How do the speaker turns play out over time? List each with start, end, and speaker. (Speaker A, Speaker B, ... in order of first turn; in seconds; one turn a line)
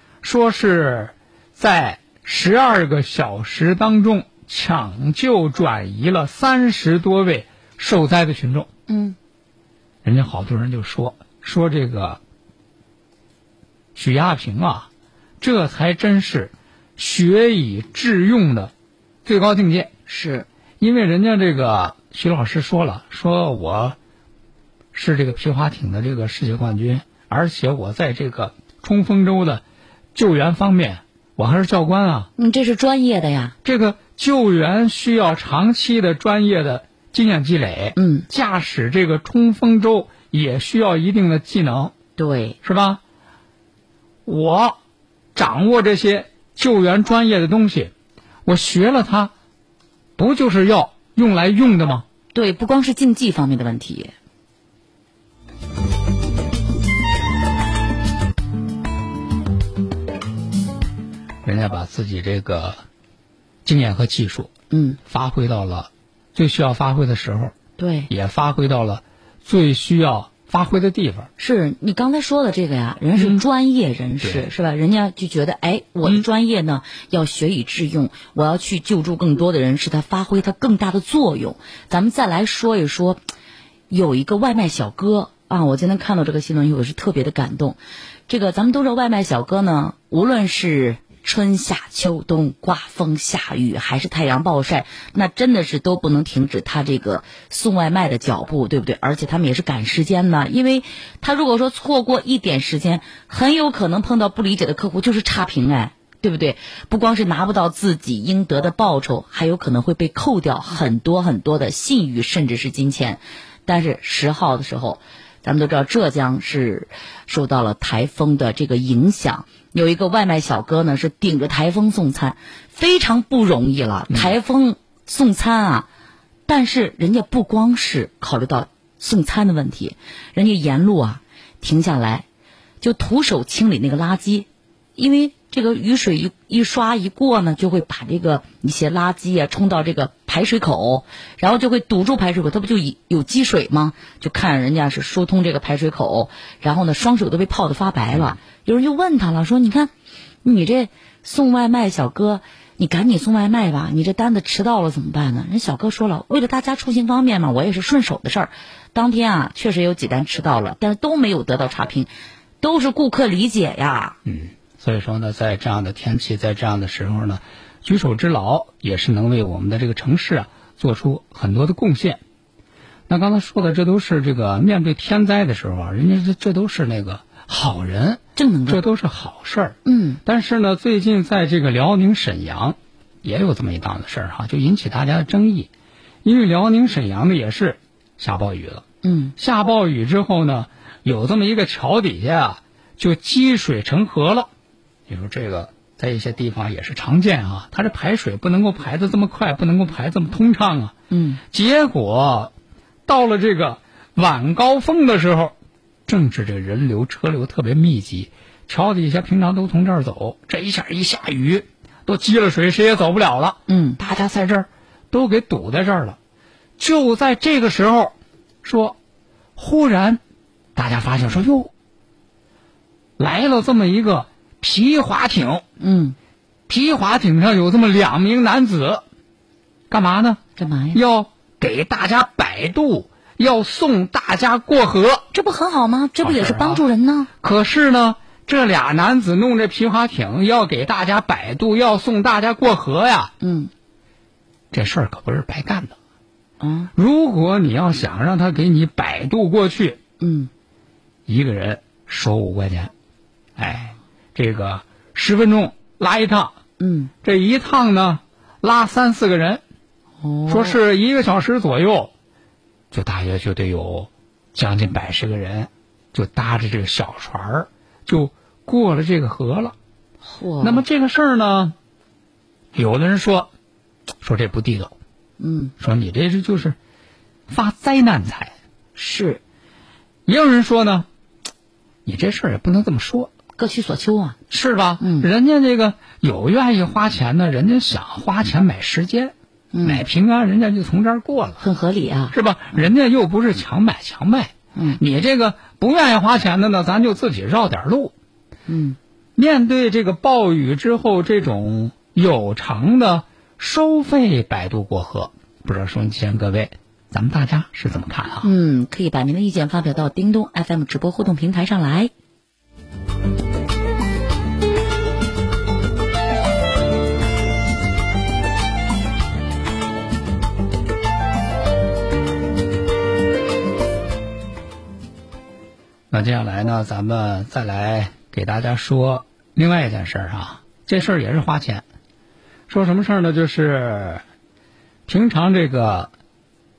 Speaker A: 0.2-8.7
Speaker B: 8.9-9.2
Speaker A: 10.0-12.2
Speaker A: 13.9-14.9
Speaker A: 15.4-18.7
Speaker A: 19.2-19.9
Speaker B: 20.1-20.5
Speaker A: 20.8-24.0
Speaker A: 24.9-29.6
Speaker A: 30.1-32.3
Speaker B: 32.4-33.6
Speaker A: 33.6-41.9
Speaker B: 38.0-38.3
Speaker B: 42.2-42.6
Speaker A: 42.6-43.0
Speaker A: 44.3-44.8
Speaker A: 45.4-47.9
Speaker A: 48.5-49.3
Speaker A: 50.2-52.0
Speaker B: 52.3-54.1
Speaker A: 61.4-62.8
Speaker A: 63.6-64.5
Speaker B: 64.7-65.0
Speaker A: 65.1-67.5
Speaker B: 67.8-68.1
Speaker A: 68.1-71.3
Speaker B: 71.4-83.2
Speaker A: 73.2-73.4
Speaker A: 74.2-74.5
Speaker B: 83.9-125.9
Speaker B: 126.5-132.3
Speaker B: 132.8-149.9
Speaker A: 148.1-148.4
Speaker B: 150.4-164.2
Speaker A: 164.2-172.2
Speaker A: 173.1-185.7
Speaker B: 178.4-178.8
Speaker B: 179.8-180.2
Speaker A: 186.2-188.8
Speaker B: 189.0-189.3
Speaker A: 189.4-194.5
Speaker A: 195.1-200.9
Speaker B: 201.1-201.4
Speaker A: 201.5-202.5
Speaker A: 203.1-205.6
Speaker A: 206.1-216.2
Speaker B: 213.7-214.0
Speaker A: 216.8-219.0
Speaker A: 219.6-220.2
Speaker A: 220.8-221.7
Speaker A: 223.2-225.6
Speaker B: 225.8-226.2
Speaker A: 226.7-229.1
Speaker A: 229.9-230.4
Speaker B: 230.6-231.0
Speaker A: 230.9-235.3
Speaker B: 235.3-237.3
Speaker A: 236.2-236.8
Speaker A: 237.4-243.3
Speaker B: 243.4-243.7
Speaker A: 244.7-245.9
Speaker B: 246.6-246.9
Speaker A: 246.9-250.0
Speaker B: 250.2-250.5
Speaker A: 251.3-252.9
Speaker A: 253.6-256.6
Speaker B: 256.8-257.1
Speaker A: 257.2-259.6
Speaker B: 260.2-260.8
Speaker A: 260.5-262.1
Speaker A: 262.9-269.8
Speaker B: 270.2-270.8
Speaker A: 270.6-271.8
Speaker A: 272.7-273.5
Speaker A: 274.2-275.0
Speaker B: 275.4-275.7
Speaker A: 275.8-276.8
Speaker A: 277.5-278.5
Speaker B: 279.0-279.4
Speaker A: 280.3-281.1
Speaker A: 282.1-283.3
Speaker B: 283.6-284.4
Speaker A: 284.5-291.6
Speaker B: 285.0-285.3
Speaker B: 289.7-290.1
Speaker B: 291.6-292.9
Speaker A: 292.3-298.1
Speaker B: 294.8-295.0
Speaker B: 298.7-299.0
Speaker A: 299.4-308.5
Speaker B: 308.4-312.1
Speaker A: 326.1-331.9
Speaker A: 332.7-334.2
Speaker A: 335.1-336.1